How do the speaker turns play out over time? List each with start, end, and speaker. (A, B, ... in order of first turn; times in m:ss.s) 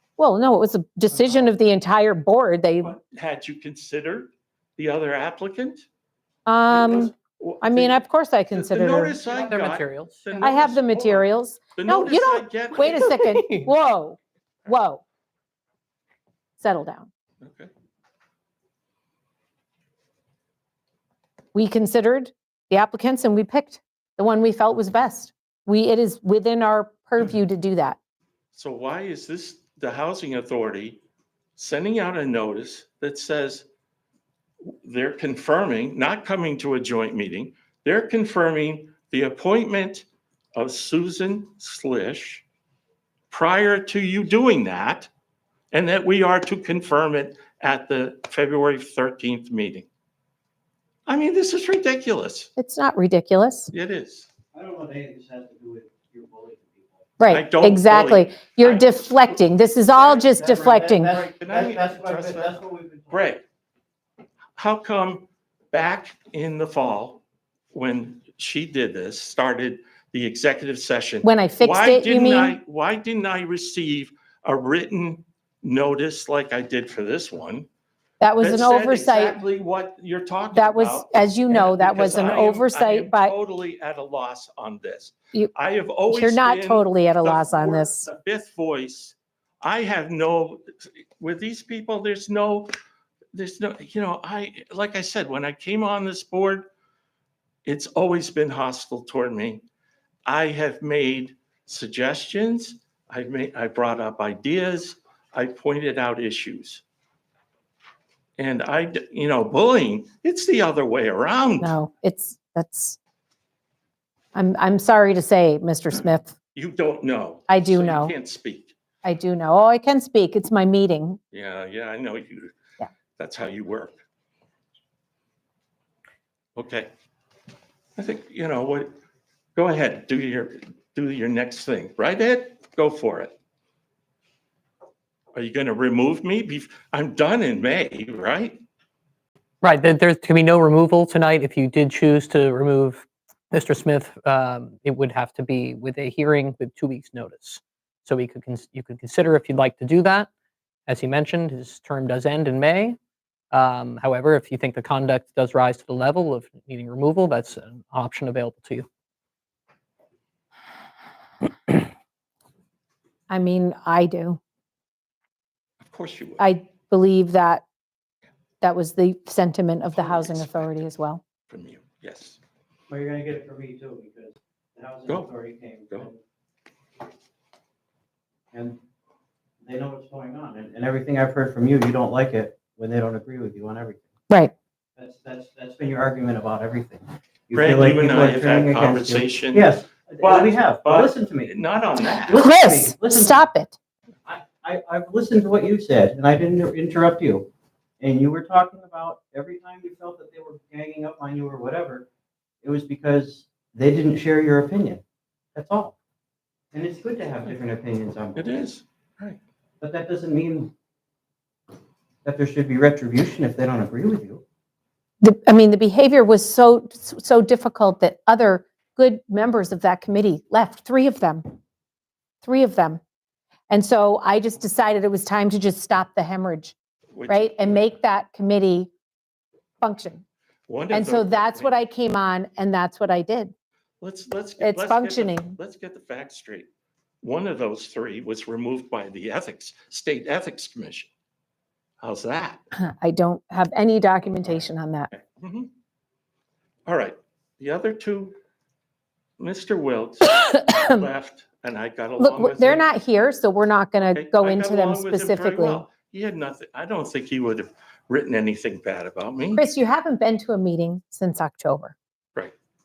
0:00.2-0:03.0 A
0:02.8-0:05.9 B
0:06.5-0:09.2 A
0:06.7-0:08.0 B
0:08.5-0:13.1 B
0:09.3-0:10.6 C
0:10.4-0:15.0 A
0:12.8-0:13.7 C
0:16.6-0:17.1 A
0:17.4-0:17.7 B
0:21.5-0:28.0 A
0:28.5-0:31.0 B
0:31.6-0:33.7 B
0:34.6-0:42.4 B
0:43.3-0:45.1 B
0:45.7-0:49.9 B
0:51.1-0:52.5 B
0:52.6-0:53.7 A
0:53.7-0:54.3 B
0:54.5-0:57.1 D
0:57.2-1:01.2 A
0:57.3-0:59.4 B
1:00.0-1:00.3 B
1:00.1-1:03.2 D
1:01.4-1:03.4 B
1:04.6-1:17.7 B
1:11.2-1:12.6 A
1:18.2-1:19.4 A
1:18.4-1:32.7 B
1:20.5-1:23.4 A
1:26.1-1:28.1 A
1:33.3-1:36.7 B
1:37.6-1:39.6 B
1:40.3-1:46.8 B
1:48.4-1:51.8 B
1:51.6-1:53.0 A
1:54.3-1:56.4 A
1:56.6-1:58.8 B
1:57.5-1:58.2 A
1:59.0-2:01.2 A
2:01.3-2:02.6 B
2:03.2-2:04.0 B
2:06.6-2:06.9 B
2:08.0-2:08.9 B
2:09.6-2:13.4 B
2:15.4-2:18.6 B
2:19.6-2:30.3 C
2:30.9-2:33.0 C
2:33.5-2:38.9 C
2:43.3-2:44.4 A
2:45.8-2:46.5 B
2:46.4-2:47.6 A
2:48.6-2:51.2 A
2:49.9-2:50.8 B
2:51.5-2:52.4 B
2:52.9-2:56.2 D
2:58.5-2:58.8 D
2:59.6-3:04.1 D
3:05.0-3:11.6 D
3:07.5-3:12.5 B
3:12.2-3:13.4 D
3:12.4-3:13.8 A
3:14.3-3:17.5 D
3:18.0-3:22.1 D
3:22.6-3:25.0 D
3:25.6-3:26.0 D
3:26.7-3:28.5 D
3:28.4-3:29.4 B
3:29.8-3:30.7 D
3:32.2-3:34.4 D
3:35.2-3:41.5 A
3:42.4-3:43.0 A
3:43.7-3:46.8 A
3:47.1-3:47.9 B
3:47.3-3:48.9 A
3:49.8-3:50.2 A
3:50.7-3:51.8 B
3:50.9-3:53.5 A
3:54.0-3:56.7 B
3:54.6-3:55.6 A
3:57.2-4:01.1 B
4:02.0-4:02.6 B
4:02.8-4:05.1 A
4:05.2-4:05.7 B
4:06.9-4:08.4 B
4:09.4-4:12.8 B
4:10.3-4:11.1 A
4:12.2-4:15.8 A
4:14.0-4:19.6 B
4:19.6-4:22.0 A